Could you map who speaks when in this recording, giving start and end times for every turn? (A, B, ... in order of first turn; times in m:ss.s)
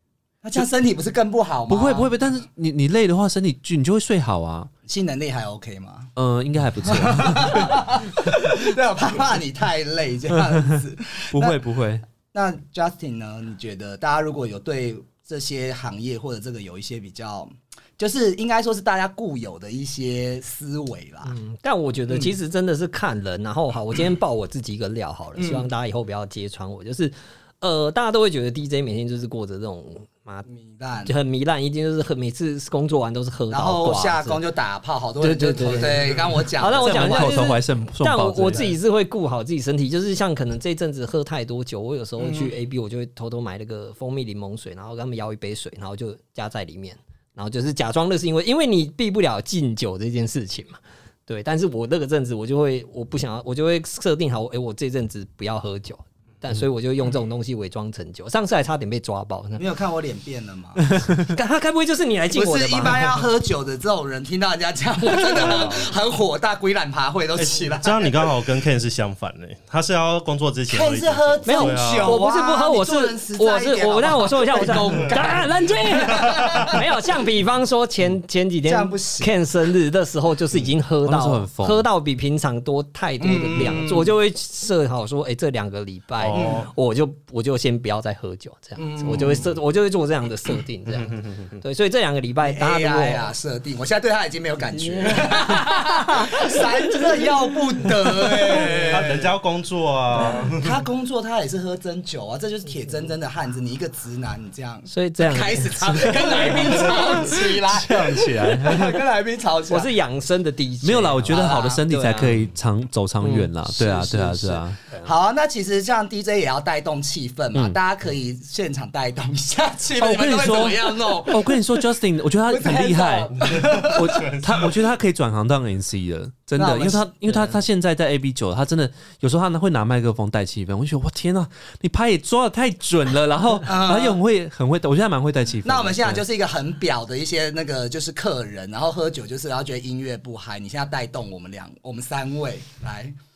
0:00.4-0:02.1 A
0:01.7-0:04.7 B
0:04.8-0:06.1 A
0:06.2-0:08.6 B
0:06.8-0:11.6 A
0:11.3-0:12.0 B
0:12.3-0:21.3 A
0:21.2-0:30.4 C
0:22.1-0:22.4 A
0:25.4-0:25.7 A
0:30.5-0:31.1 A
0:31.0-0:34.4 C
0:33.5-0:37.4 A
0:35.2-0:59.6 C
0:36.8-0:38.7 B
0:42.2-0:42.5 A
0:59.6-1:01.1 A
1:01.2-1:03.2 C
1:02.3-1:08.2 A
1:05.3-1:05.8 D
1:07.3-1:12.2 D
1:10.7-1:16.8 A
1:11.4-1:33.3 C
1:18.6-1:19.4 A
1:21.0-1:21.8 B
1:23.2-1:24.1 A
1:26.2-1:26.7 D
1:26.3-1:26.6 A
1:28.8-1:29.6 A
1:32.4-1:39.3 A
1:34.7-1:39.0 C
1:38.7-1:40.8 D
1:40.1-1:49.9 A
1:40.2-1:40.5 C
1:44.9-1:47.2 C
1:46.8-1:49.0 B
1:49.7-1:52.4 C
1:50.8-1:54.8 B
1:51.3-1:51.8 A
1:53.2-1:55.1 C
1:54.0-1:54.4 A
1:55.0-2:01.7 A
1:57.5-1:57.8 B
1:59.9-2:16.2 B
2:02.5-2:04.6 A
2:03.4-2:04.7 D
2:06.6-2:07.4 A
2:13.6-2:14.2 A
2:15.6-2:23.1 A